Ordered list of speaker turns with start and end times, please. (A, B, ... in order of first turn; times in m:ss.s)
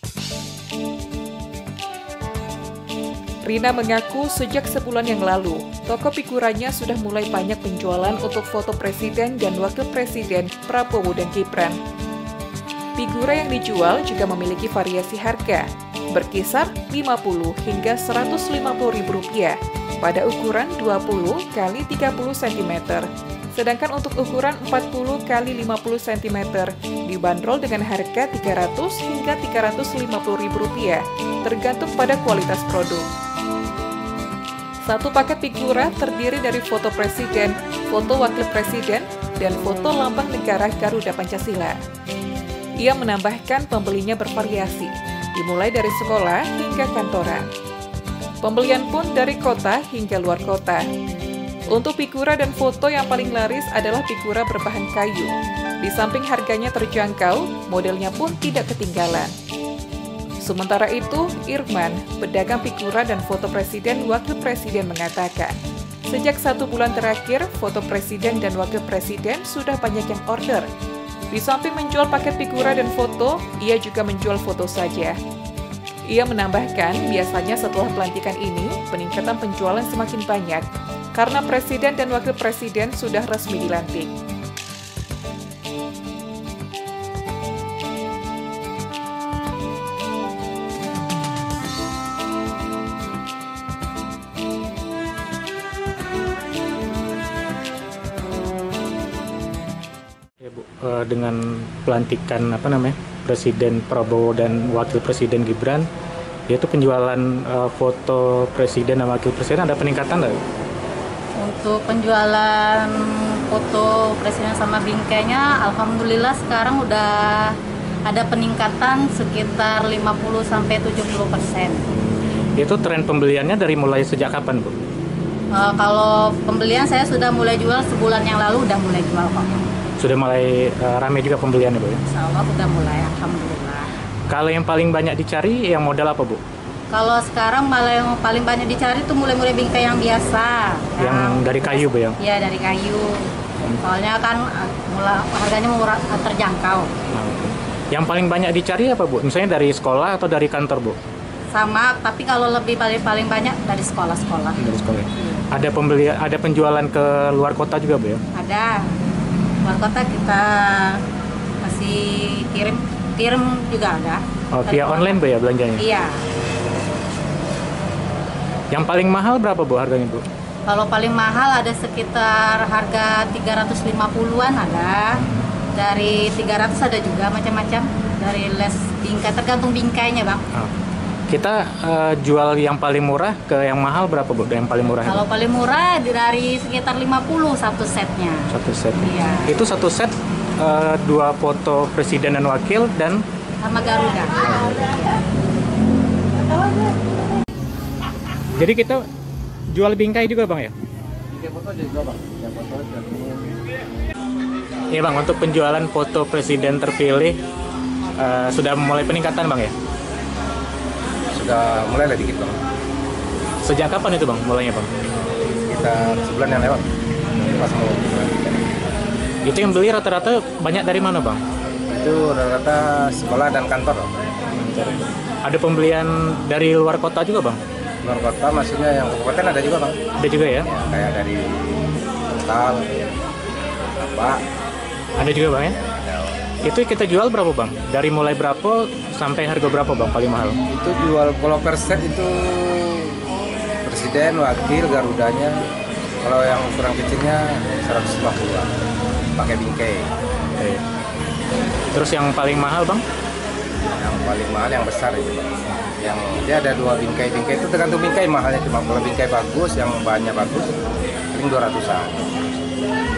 0:03.4-0:11.8 A
0:13.0-0:33.1 A
0:34.8-0:41.8 A
0:42.8-0:47.5 A
0:48.4-0:50.9 A
0:51.7-0:59.3 A
1:00.4-1:10.7 A
1:11.3-1:15.2 A
1:16.1-1:24.1 A
1:40.4-1:45.9 B
1:46.5-1:50.4 B
1:51.4-2:01.8 C
2:01.9-2:04.8 B
2:05.6-2:09.7 C
2:10.0-2:12.0 B
2:12.1-2:13.9 C
2:14.3-2:16.4 B
2:16.9-2:23.3 C
2:21.0-2:22.2 B
2:23.8-2:26.9 C
2:27.1-2:31.0 B
2:31.5-2:34.6 C
2:34.6-2:38.2 B
2:38.3-2:38.9 C
2:39.6-2:41.0 C
2:41.6-2:45.2 C
2:44.5-2:45.8 B
2:45.8-2:46.2 C
2:48.7-2:50.2 B
2:50.7-2:55.2 C
2:55.2-2:55.5 B
2:55.8-3:00.4 C
3:01.3-3:05.2 B
3:05.1-3:09.6 C
3:08.5-3:13.2 B
3:13.6-3:15.2 C
3:14.4-3:14.9 B
3:18.6-3:19.0 B
3:19.7-3:20.8 B
3:21.3-3:23.6 D
3:24.9-3:27.4 B
3:28.2-3:29.8 B
3:31.3-3:32.6 D
3:33.6-3:34.9 B
3:35.2-3:36.8 D
3:37.4-3:38.8 D
3:39.4-3:41.4 B
3:41.9-3:44.2 D
3:44.5-3:47.6 B
3:48.0-3:50.0 D
3:50.2-3:50.7 B
3:50.6-3:53.0 D
3:54.0-3:54.4 D
3:55.2-3:55.8 B
3:55.9-3:56.4 D
3:56.6-4:00.6 B
4:00.7-4:03.2 D
4:03.8-4:05.6 D
4:06.2-4:08.7 D
4:09.4-4:10.1 D
4:10.6-4:10.8 B
4:11.9-4:13.0 B
4:14.0-4:20.8 D
4:21.3-4:22.7 D